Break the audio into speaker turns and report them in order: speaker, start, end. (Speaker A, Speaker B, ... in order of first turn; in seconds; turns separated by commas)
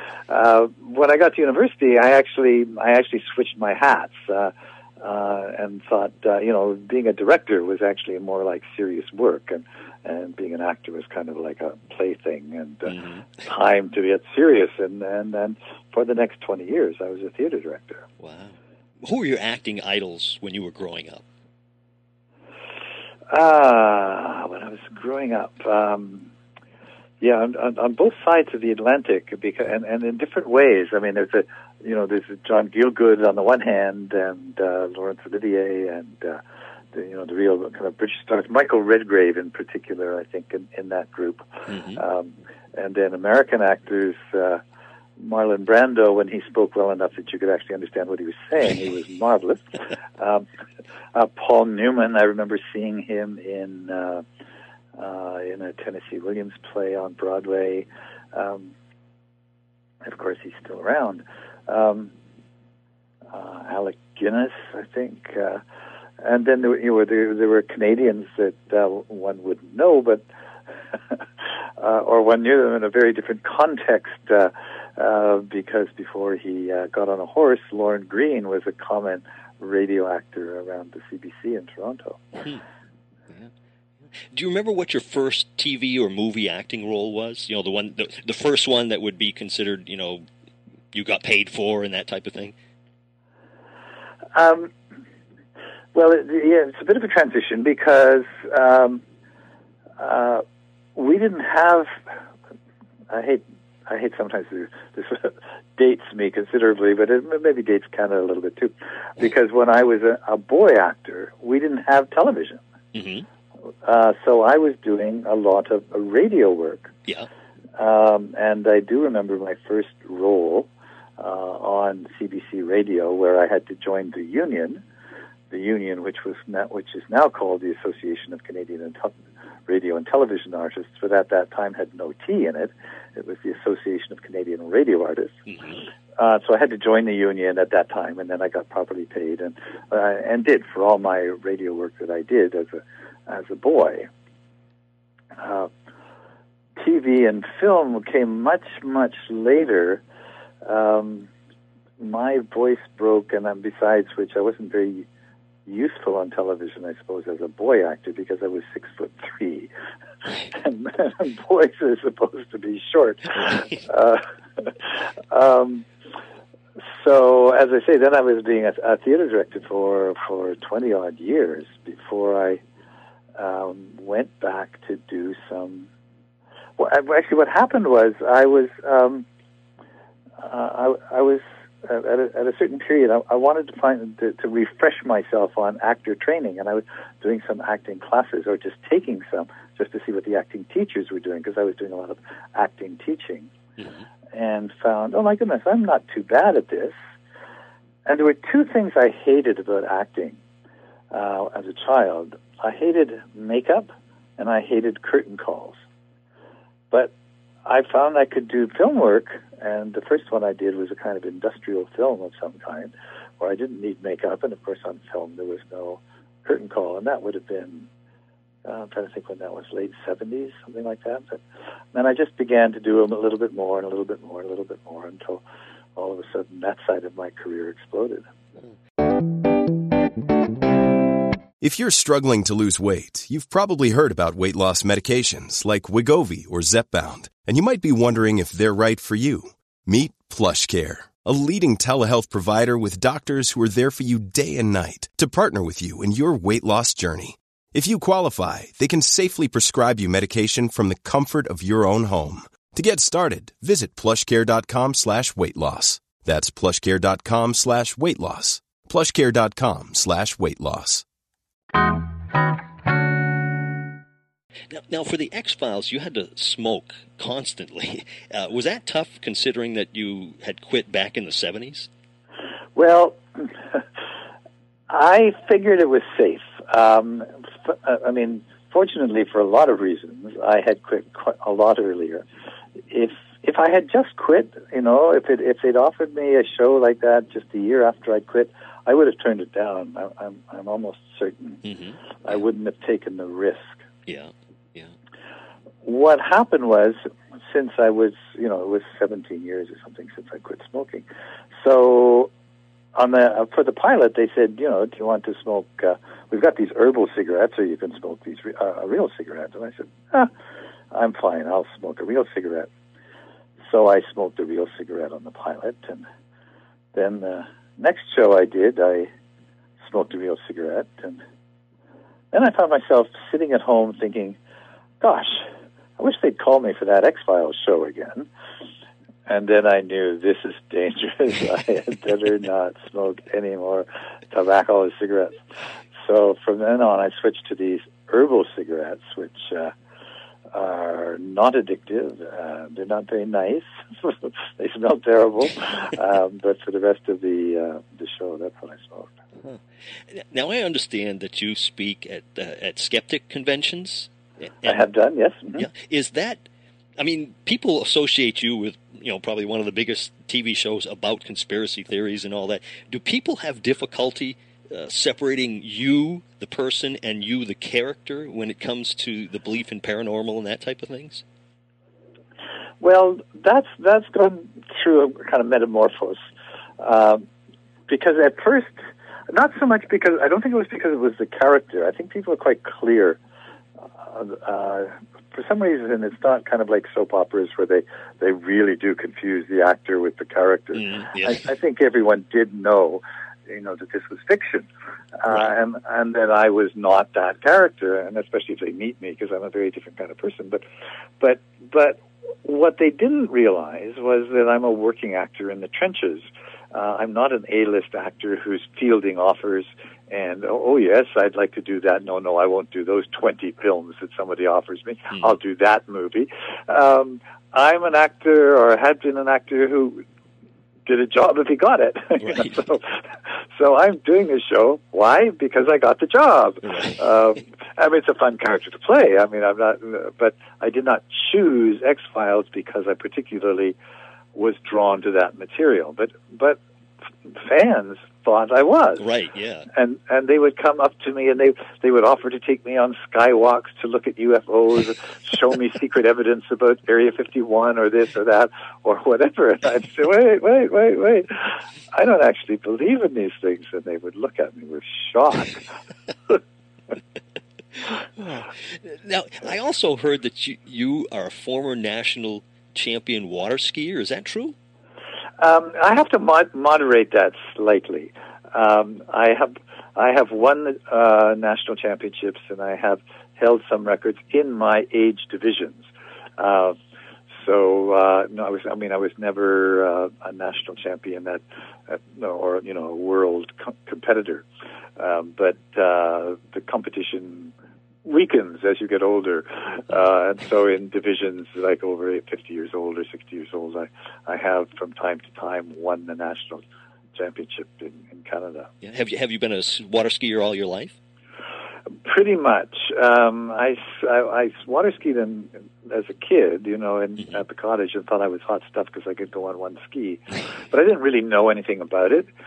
Speaker A: 0.3-18.0, Speaker B: 12.9-13.3, Speaker B: 18.2-21.2, Speaker A: 23.3-26.3, Speaker A: 27.2-36.4, Speaker A: 36.9-44.6, Speaker B: 41.7-42.0, Speaker A: 45.2-50.5, Speaker A: 51.1-54.2, Speaker A: 55.0-58.7, Speaker A: 60.0-62.1, Speaker A: 63.3-65.6, Speaker A: 66.2-70.2, Speaker A: 71.8-82.4, Speaker B: 84.2-90.2, Speaker B: 90.9-92.5, Speaker A: 94.3-94.7, Speaker A: 95.9-99.0, Speaker A: 100.0-100.4, Speaker A: 101.0-102.0, Speaker A: 103.1-112.6, Speaker B: 112.9-113.3, Speaker A: 113.8-116.9, Speaker A: 117.8-124.8, Speaker A: 125.5-129.2, Speaker A: 129.7-135.4, Speaker B: 135.5-135.8, Speaker A: 136.2-144.1, Speaker A: 145.4-145.7, Speaker A: 146.8-150.0, Speaker A: 150.7-151.3, Speaker A: 152.0-155.1, Speaker A: 155.7-159.7, Speaker A: 160.5-165.9, Speaker A: 167.0-172.6, Speaker A: 173.4-175.9, Speaker A: 176.8-179.3, Speaker A: 180.4-193.5, Speaker A: 194.3-197.0, Speaker A: 198.1-200.4, Speaker A: 201.1-205.8, Speaker A: 207.7-217.9, Speaker A: 218.7-221.4, Speaker A: 221.9-225.4, Speaker A: 226.0-228.3, Speaker C: 231.6-261.1, Speaker B: 264.7-271.9, Speaker A: 272.8-273.8, Speaker A: 274.9-282.2, Speaker A: 282.9-291.6, Speaker B: 291.6-292.0, Speaker A: 292.2-293.8, Speaker B: 294.1-294.9, Speaker A: 295.8-301.1, Speaker A: 301.6-302.3, Speaker A: 302.9-310.3, Speaker A: 310.9-312.7, Speaker A: 313.7-316.1, Speaker A: 316.9-319.1, Speaker A: 319.8-321.2, Speaker A: 322.3-324.4, Speaker A: 325.0-325.5, Speaker A: 326.0-328.3, Speaker A: 329.3-335.4, Speaker A: 336.0-339.7, Speaker A: 340.5-349.1, Speaker B: 349.4-354.8, Speaker A: 354.6-355.7, Speaker B: 355.6-356.4, Speaker B: 357.0-371.2, Speaker A: 372.8-376.2, Speaker A: 376.8-377.2, Speaker A: 377.9-378.7, Speaker A: 379.3-383.2, Speaker A: 384.1-400.6, Speaker B: 390.8-391.5, Speaker A: 401.2-420.0, Speaker A: 420.9-433.8, Speaker B: 426.7-427.0, Speaker A: 434.4-436.6, Speaker A: 437.3-439.1, Speaker B: 439.0-439.7, Speaker A: 439.7-455.7, Speaker B: 458.2-464.6, Speaker A: 465.4-475.9, Speaker A: 476.4-476.8, Speaker A: 477.4-484.5, Speaker A: 485.0-487.5, Speaker A: 488.0-496.6, Speaker A: 497.1-498.7, Speaker B: 498.8-501.0, Speaker A: 502.1-512.3